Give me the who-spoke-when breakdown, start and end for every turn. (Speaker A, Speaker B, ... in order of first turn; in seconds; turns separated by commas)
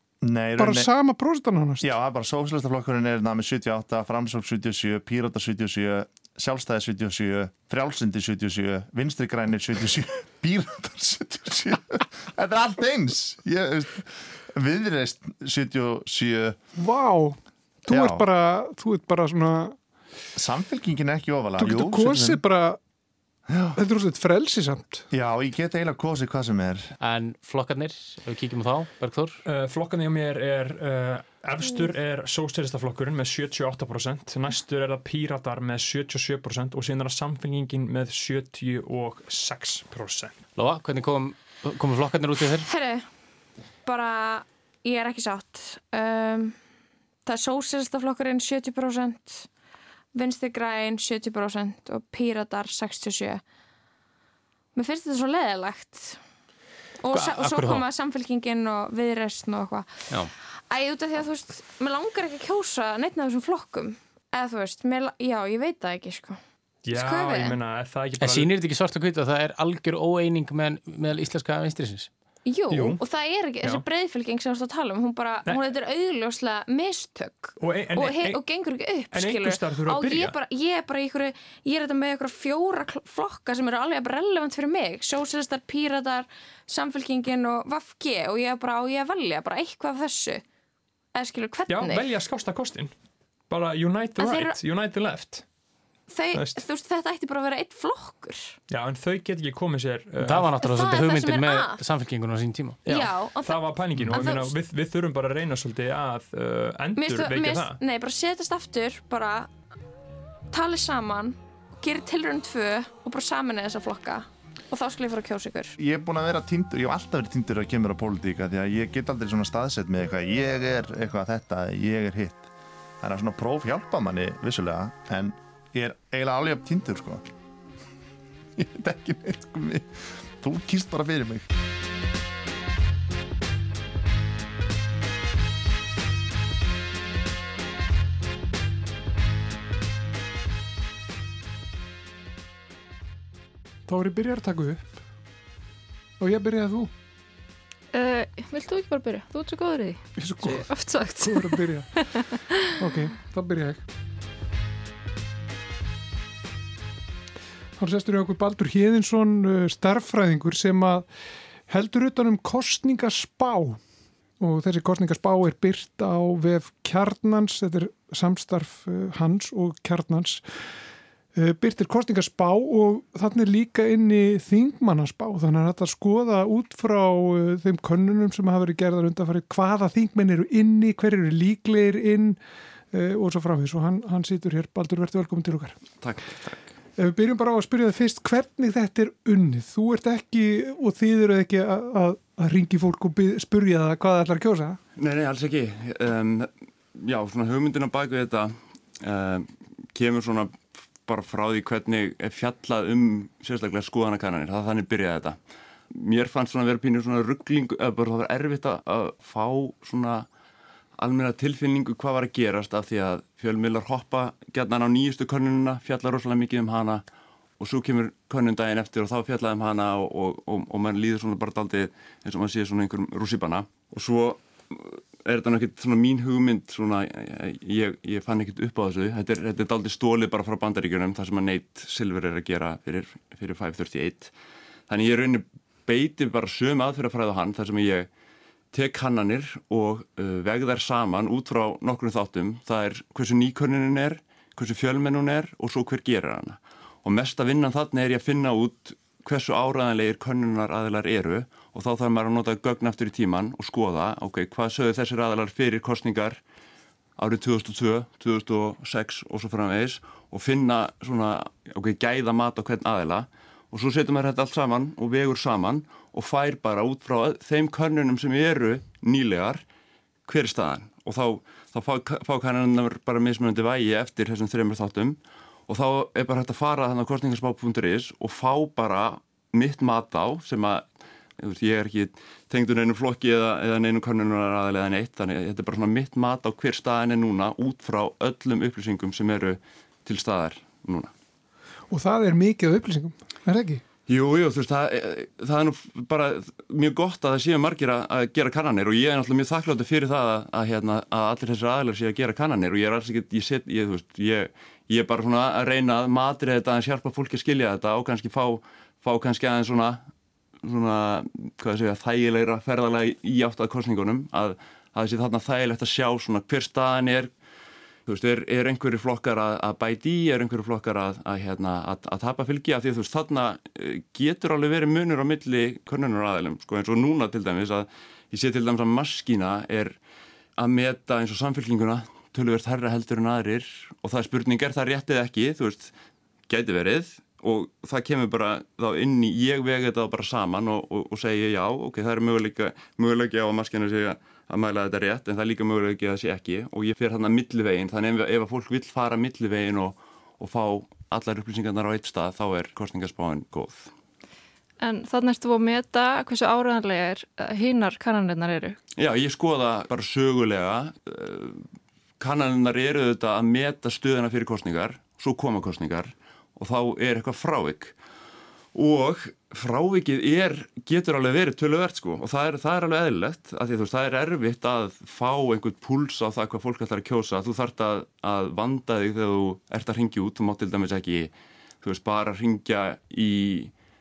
Speaker A: 0.2-0.9, Speaker B: 0.6-1.9, Speaker A: 1.8-16.6, Speaker B: 16.8-19.8, Speaker A: 17.9-18.3, Speaker A: 20.4-22.4, Speaker B: 21.6-22.8, Speaker A: 23.5-23.8, Speaker B: 23.8-25.1, Speaker A: 25.1-26.9, Speaker C: 27.0-29.4, Speaker D: 29.5-40.4, Speaker C: 40.6-42.7, Speaker E: 42.7-43.1, Speaker E: 43.9-46.6, Speaker E: 47.3-49.5, Speaker E: 50.1-53.4, Speaker E: 54.8-56.2, Speaker E: 57.0-60.1, Speaker C: 57.1-57.9, Speaker E: 60.7-66.4, Speaker D: 66.8-68.5, Speaker E: 66.9-67.6, Speaker C: 68.2-72.1, Speaker E: 72.5-90.4, Speaker D: 72.7-73.0, Speaker D: 77.6-78.4, Speaker D: 79.1-80.3, Speaker E: 91.2-92.0, Speaker D: 91.7-92.9, Speaker D: 93.5-95.5, Speaker E: 94.2-94.6, Speaker E: 96.1-98.6, Speaker D: 96.3-96.6, Speaker D: 98.7-100.5, Speaker C: 100.2-102.8, Speaker E: 100.6-101.8, Speaker D: 102.8-107.8, Speaker E: 102.9-104.5, Speaker E: 107.0-109.5, Speaker E: 110.5-115.8, Speaker A: 115.8-122.5, Speaker A: 123.0-127.3, Speaker A: 128.6-131.5, Speaker B: 143.9-144.9, Speaker B: 146.2-146.9, Speaker F: 147.9-152.8, Speaker B: 150.2-152.1, Speaker B: 152.8-153.8, Speaker B: 157.8-161.1, Speaker B: 161.7-163.8, Speaker B: 164.4-170.4, Speaker B: 171.3-182.4, Speaker B: 182.9-185.8, Speaker G: 186.0-186.8, Speaker B: 187.0-194.8, Speaker G: 195.0-205.4, Speaker G: 205.9-210.3, Speaker G: 211.0-217.0, Speaker G: 217.6-234.3, Speaker G: 234.9-238.1, Speaker G: 238.7-256.4, Speaker G: 257.2-269.6, Speaker G: 270.2-280.9, Speaker G: 281.4-291.1, Speaker B: 291.9-293.8, Speaker G: 294.1-310.0, Speaker G: 310.6-317.3, Speaker G: 318.1-330.0, Speaker G: 330.6-335.9, Speaker G: 336.5-353.9, Speaker F: 354.8-358.8, Speaker G: 359.0-361.6, Speaker G: 362.2-367.9, Speaker G: 368.7-383.7